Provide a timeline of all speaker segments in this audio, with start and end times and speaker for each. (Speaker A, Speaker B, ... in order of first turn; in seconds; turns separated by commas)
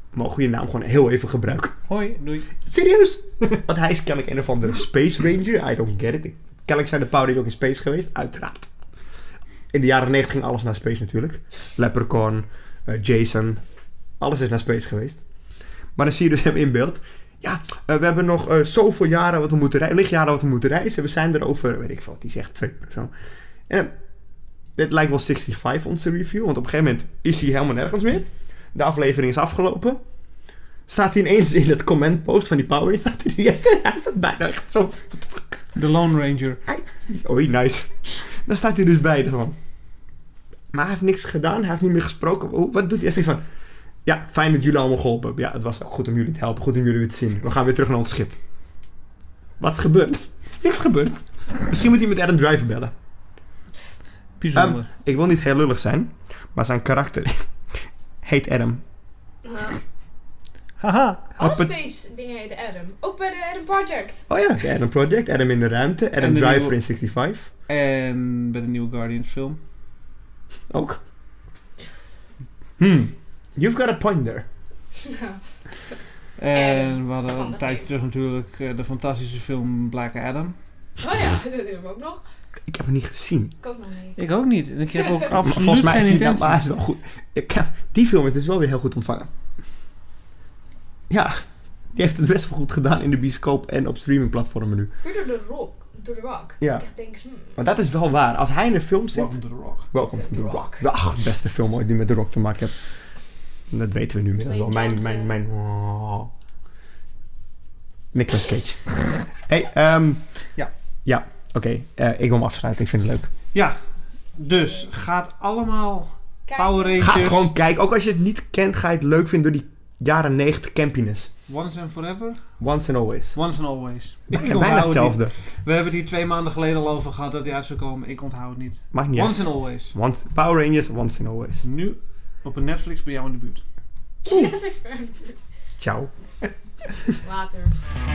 Speaker A: 0.1-1.8, Speaker B: 1.9-2.5, Speaker A: 2.6-8.7, Speaker A: 9.7-13.6, Speaker A: 14.2-15.2, Speaker A: 15.9-23.1, Speaker A: 24.8-30.0, Speaker A: 30.9-35.7, Speaker B: 35.7-36.6, Speaker A: 36.6-39.5, Speaker A: 40.7-43.4, Speaker A: 44.0-48.4, Speaker A: 49.6-52.9, Speaker B: 54.4-54.9, Speaker A: 54.5-58.8, Speaker C: 59.4-59.8, Speaker B: 60.8-61.3, Speaker C: 61.4-64.3, Speaker A: 61.4-61.7, Speaker A: 64.3-67.5, Speaker B: 66.2-66.8, Speaker B: 67.7-69.6, Speaker A: 70.7-71.0, Speaker A: 72.8-74.5, Speaker C: 75.0-76.0, Speaker B: 76.4-80.5, Speaker C: 76.5-77.9, Speaker C: 81.0-82.2, Speaker A: 82.7-83.5, Speaker C: 83.6-84.2, Speaker B: 84.2-86.7, Speaker C: 84.9-85.2, Speaker A: 85.4-89.3, Speaker A: 91.1-94.9, Speaker C: 95.0-97.6, Speaker A: 96.6-96.9, Speaker A: 97.5-103.0, Speaker B: 99.1-99.9, Speaker C: 100.2-100.8, Speaker A: 103.7-106.3, Speaker C: 104.4-105.3, Speaker A: 108.1-110.5, Speaker A: 111.0-113.3, Speaker B: 113.5-117.5, Speaker C: 116.5-117.0, Speaker A: 117.0-121.3, Speaker B: 121.5-122.5, Speaker A: 122.6-123.3, Speaker B: 123.3-129.9, Speaker A: 124.3-125.3, Speaker A: 128.9-131.6, Speaker B: 131.6-133.6, Speaker C: 134.2-135.4, Speaker A: 135.8-136.9, Speaker C: 137.2-137.8